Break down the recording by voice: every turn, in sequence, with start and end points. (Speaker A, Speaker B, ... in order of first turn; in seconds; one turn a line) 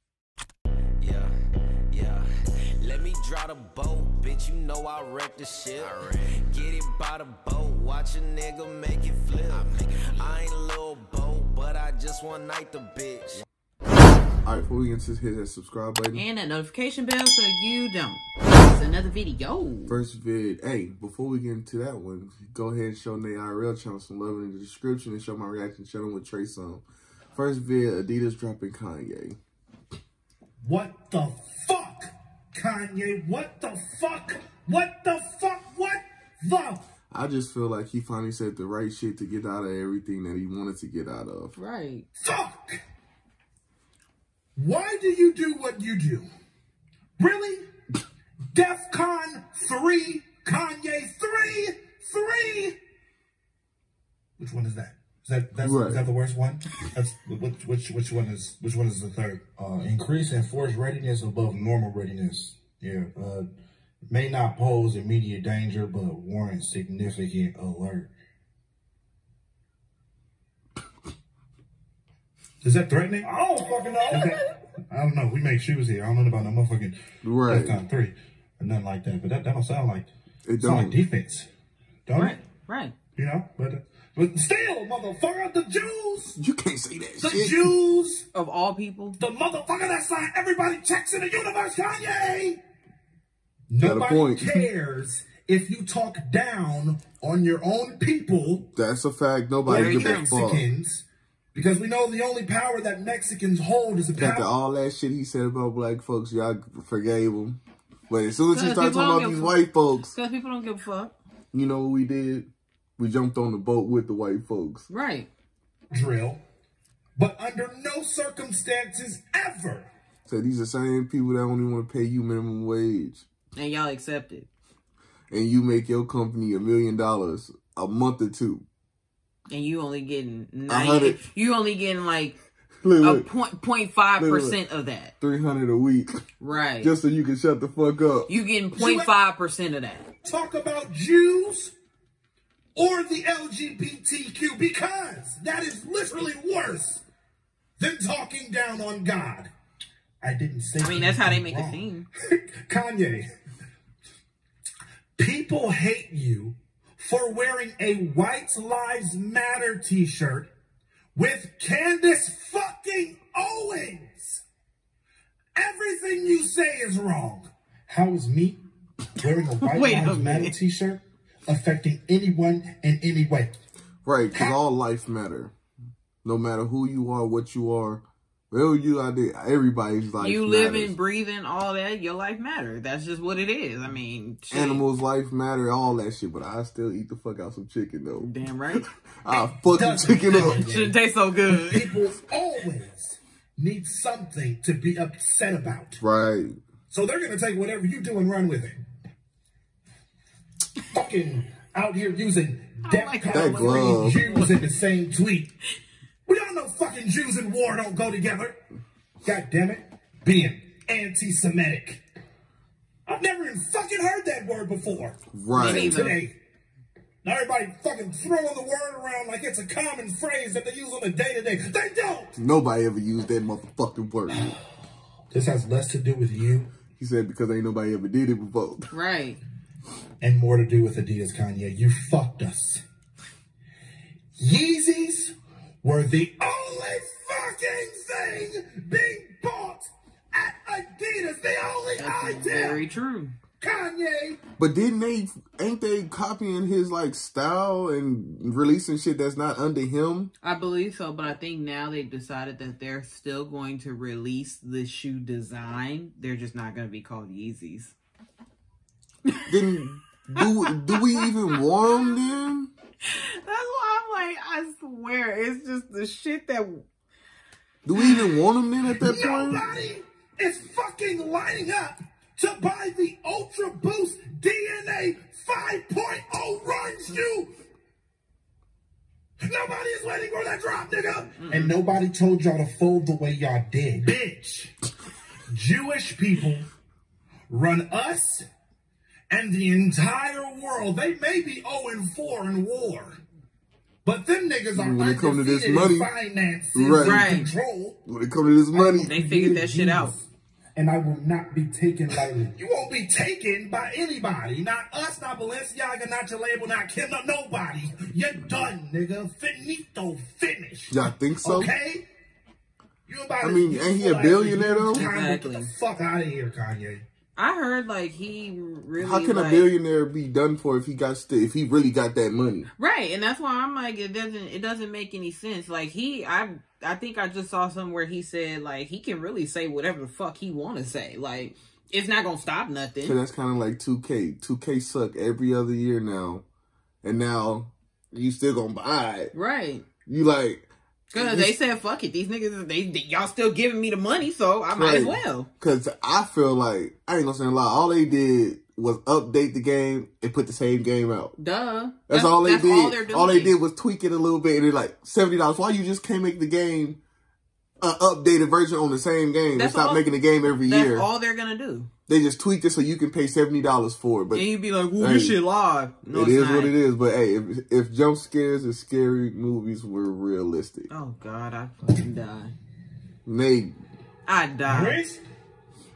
Speaker A: 1.0-1.3
Speaker A: 1.9-13.4
Speaker B: 14.4-16.2
Speaker C: 16.1-20.0
Speaker B: 19.9-29.4
Speaker D: 30.6-36.8
Speaker B: 37.1-41.5
Speaker C: 41.5-42.0
Speaker D: 42.1-42.8
Speaker D: 44.5-46.3
Speaker D: 47.2-47.7
Speaker D: 48.5-52.8
Speaker D: 54.4-63.5
Speaker B: 55.6-56.0
Speaker D: 64.1-68.1
Speaker D: 72.6-80.1
Speaker C: 74.1-74.5
Speaker B: 77.2-77.8
Speaker B: 80.5-81.0
Speaker D: 80.6-81.5
Speaker D: 82.1-82.4
Speaker C: 82.2-82.9
Speaker D: 83.2-86.4
Speaker B: 86.4-87.7
Speaker D: 87.2-88.3
Speaker C: 88.3-89.2
Speaker D: 89.2-92.6
Speaker D: 93.7-98.7
Speaker B: 93.8-94.6
Speaker B: 98.8-100.7
Speaker C: 99.7-100.3
Speaker D: 99.7-104.5
Speaker B: 104.2-110.2
Speaker C: 108.5-111.2
Speaker B: 111.5-114.9
Speaker C: 114.9-115.3
Speaker D: 115.9-116.4
Speaker D: 117.2-119.9
Speaker B: 120.2-123.3
Speaker C: 123.5-124.5
Speaker B: 125.3-128.6
Speaker C: 129.5-132.3
Speaker B: 130.7-131.2
Speaker B: 132.8-133.3
Speaker C: 133.0-135.1
Speaker B: 134.2-134.6
Speaker B: 135.2-136.2
Speaker C: 136.4-136.9
Speaker B: 136.8-138.3
Speaker C: 138.3-140.1
Speaker D: 138.7-139.1
Speaker D: 140.2-141.7
Speaker D: 142.8-147.0
Speaker D: 147.8-149.5
Speaker D: 150.2-153.3
Speaker C: 150.8-152.1
Speaker D: 155.2-160.5
Speaker D: 161.1-164.4
Speaker D: 165.6-168.6
Speaker D: 169.2-173.5
Speaker C: 169.6-170.5
Speaker B: 174.0-175.5
Speaker D: 174.3-174.6
Speaker B: 176.2-180.9
Speaker C: 180.2-184.8
Speaker B: 184.5-188.3
Speaker C: 188.2-188.8
Speaker B: 189.2-190.6
Speaker D: 189.7-196.0
Speaker C: 190.3-191.9
Speaker B: 196.0-196.6
Speaker D: 196.9-198.8
Speaker D: 200.9-205.5
Speaker C: 202.8-204.6
Speaker B: 203.3-204.2
Speaker D: 206.2-208.6
Speaker D: 209.2-212.0
Speaker D: 213.1-216.4
Speaker B: 215.3-216.1
Speaker C: 215.5-216.2
Speaker D: 217.2-222.3
Speaker B: 222.3-224.5
Speaker D: 224.3-224.6
Speaker D: 225.3-226.7
Speaker B: 227.0-228.9
Speaker C: 228.9-229.4
Speaker D: 230.2-232.8
Speaker D: 234.4-242.8
Speaker C: 242.0-243.3
Speaker D: 243.6-244.4
Speaker B: 244.6-250.3
Speaker C: 250.4-257.9
Speaker C: 259.2-259.6
Speaker B: 259.5-262.7
Speaker C: 260.3-262.2
Speaker C: 263.1-266.9
Speaker B: 267.8-269.7
Speaker C: 267.9-268.3
Speaker D: 268.9-277.5
Speaker D: 279.4-284.7
Speaker C: 281.4-281.7
Speaker D: 285.5-286.7
Speaker D: 287.5-288.4
Speaker D: 289.3-293.2
Speaker D: 294.0-298.0
Speaker B: 294.7-296.1
Speaker B: 296.7-297.4
Speaker C: 297.0-297.5
Speaker B: 298.1-299.1
Speaker D: 298.7-312.1
Speaker C: 299.0-300.1
Speaker B: 310.9-311.7
Speaker D: 313.1-317.0
Speaker B: 313.4-315.1
Speaker C: 314.9-315.7
Speaker C: 317.4-319.7
Speaker B: 319.0-322.7
Speaker C: 322.8-333.2
Speaker B: 333.0-336.4
Speaker B: 337.0-339.3
Speaker C: 339.3-339.9
Speaker B: 340.1-341.6
Speaker C: 341.1-345.5
Speaker B: 344.7-351.4
Speaker C: 351.4-353.6
Speaker B: 352.1-357.0
Speaker B: 357.8-361.1
Speaker C: 359.5-361.9
Speaker B: 362.1-365.4
Speaker C: 364.3-366.8
Speaker B: 366.1-370.9
Speaker C: 370.9-372.5
Speaker B: 373.2-373.8
Speaker C: 374.2-375.0
Speaker D: 374.6-375.2